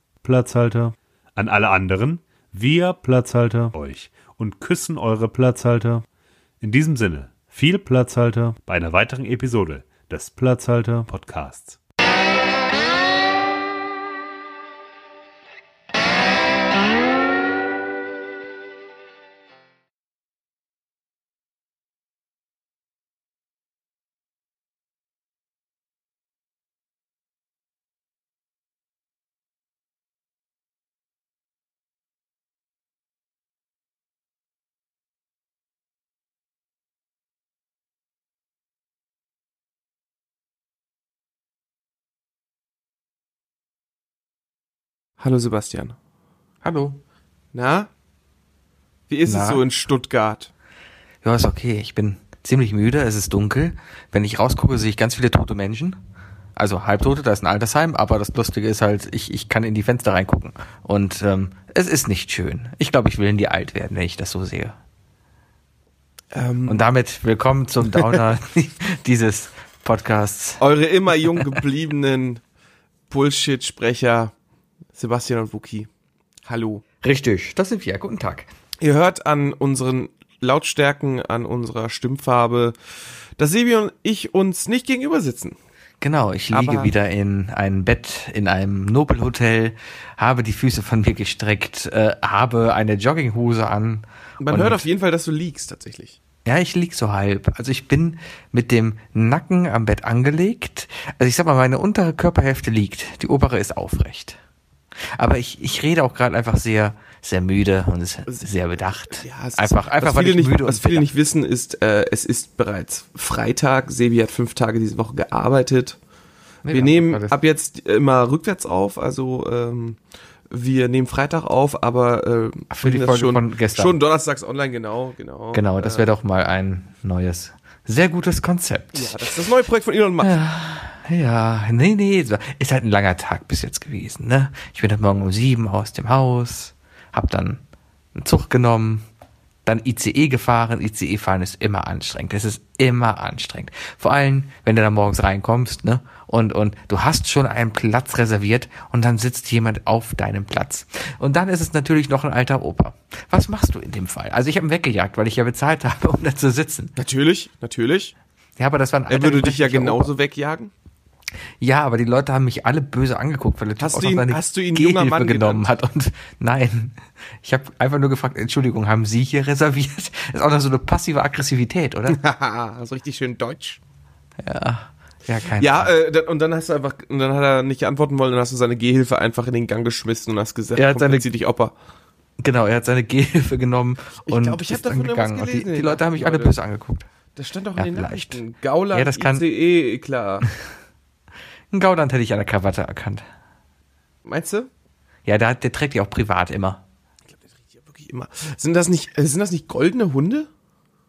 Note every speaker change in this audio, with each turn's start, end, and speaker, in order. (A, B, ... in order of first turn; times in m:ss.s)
0:00.2-0:06.0 A
0:06.6-0:11.8 A
0:45.2-0:46.0 B
0:46.6-0:47.0 C
0:47.5-0:47.9 B
0:49.1-0:50.5 B
0:49.2-0:49.6 C
0:51.2-0:56.0 C
0:56.6-1:04.8 C
1:06.3-1:06.8 B
1:06.7-1:10.6 C
1:07.9-1:08.2 B
1:10.6-1:12.4 B
1:11.3-1:11.6 C
1:13.1-1:14.3 B
1:15.0-1:15.9 B
1:16.4-1:16.8 B
1:17.0-1:18.5 C
1:18.8-1:22.7 B
1:23.4-1:25.6 B
1:26.0-1:34.8 C
1:26.5-1:26.9 B
1:34.4-1:36.2 B
1:36.4-1:44.4 C
1:45.2-1:51.1 C
1:49.2-1:56.0 B
1:56.6-1:57.4 C
1:56.7-2:00.0 B
2:00.5-2:06.1 B
2:02.7-2:04.0 C
2:05.5-2:09.2 C
2:08.9-2:10.4 B
2:10.2-2:17.6 C
2:18.1-2:19.0 C
2:19.6-2:36.9 C
2:37.0-2:38.1 B
2:38.6-2:40.1 C
2:39.1-2:40.7 B
2:41.6-2:52.2 C
2:43.8-2:45.7 B
2:52.1-2:53.8 B
2:54.4-2:55.9 C
2:55.6-3:01.7 B
3:00.8-3:01.2 C
3:02.4-3:07.1 C
3:04.2-3:06.6 B
3:07.4-3:10.5 B
3:07.8-3:08.4 C
3:08.9-3:09.4 C
3:11.7-3:13.2 C
3:14.2-3:14.7 B
3:15.2-3:16.8 C
3:17.3-3:20.5 B